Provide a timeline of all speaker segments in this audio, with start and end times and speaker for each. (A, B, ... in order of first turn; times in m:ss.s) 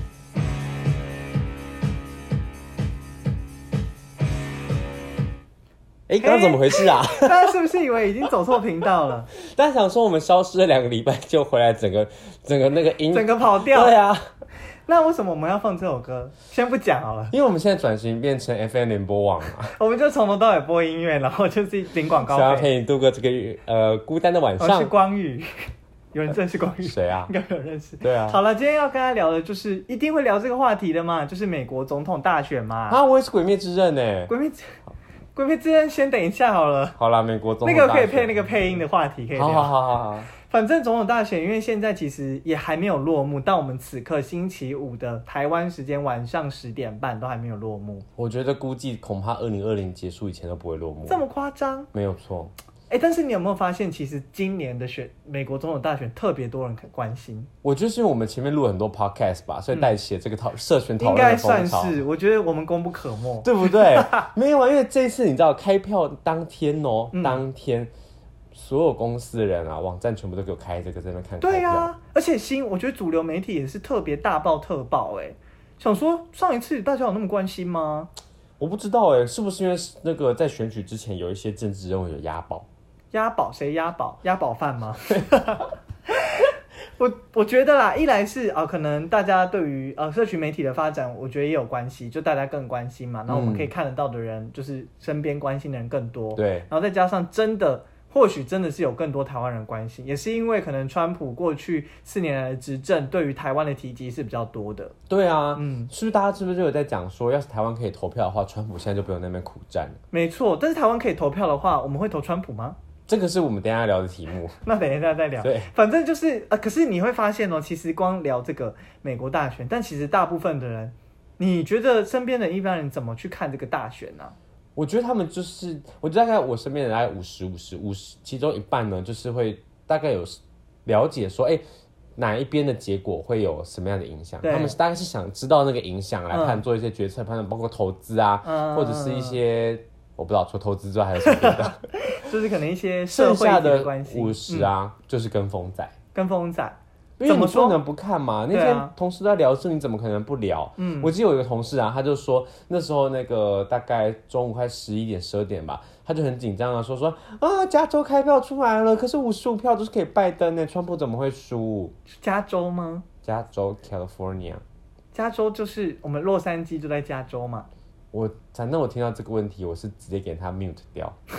0:06.1-0:07.6 A
0:06.2-0:09.3 B
0:09.4-0:14.3 A
0:13.1-0:13.9 B
0:14.8-0:17.3 B
0:17.3-0:19.7 A
0:19.8-0:22.7 B
0:22.2-0:24.9 A
0:24.6-0:25.5 B
0:26.1-0:33.0 B
0:26.8-0:27.3 A
0:28.0-0:28.4 A
0:32.9-0:34.3 A
0:34.3-0:34.8 B
0:35.3-0:37.0 B
0:37.0-0:38.4 A
0:37.6-0:39.7 B
0:39.4-0:40.3 A
0:40.4-0:48.0 B
0:48.2-0:51.2 A
0:51.0-0:51.9 B
0:51.9-0:52.5 A
0:52.9-0:57.5 B
0:57.6-1:02.0 A
1:01.0-1:04.2 B
1:03.4-1:07.9 A
1:07.1-1:07.4 B
1:08.5-1:11.9 A
1:11.4-1:18.1 B
1:18.6-1:22.6 A
1:23.1-1:44.9 B
1:33.3-1:33.7 A
1:36.4-1:36.7 A
1:45.1-1:50.0 A
1:45.6-1:45.9 B
1:50.1-1:52.8 B
1:53.1-1:54.6 A
1:54.6-2:04.3 B
1:55.4-1:55.7 A
2:04.7-2:11.6 A
2:12.2-2:22.1 A
2:14.4-2:14.8 B
2:16.3-2:16.6 B
2:18.4-2:19.4 B
2:21.3-2:24.7 B
2:23.1-2:25.9 A
2:26.1-2:27.8 B
2:27.2-2:41.9 A
2:28.5-2:28.9 B
2:30.8-2:31.1 B
2:42.2-2:43.0 B
2:43.2-2:44.6 A
2:45.1-2:47.7 B
2:48.1-2:51.2 A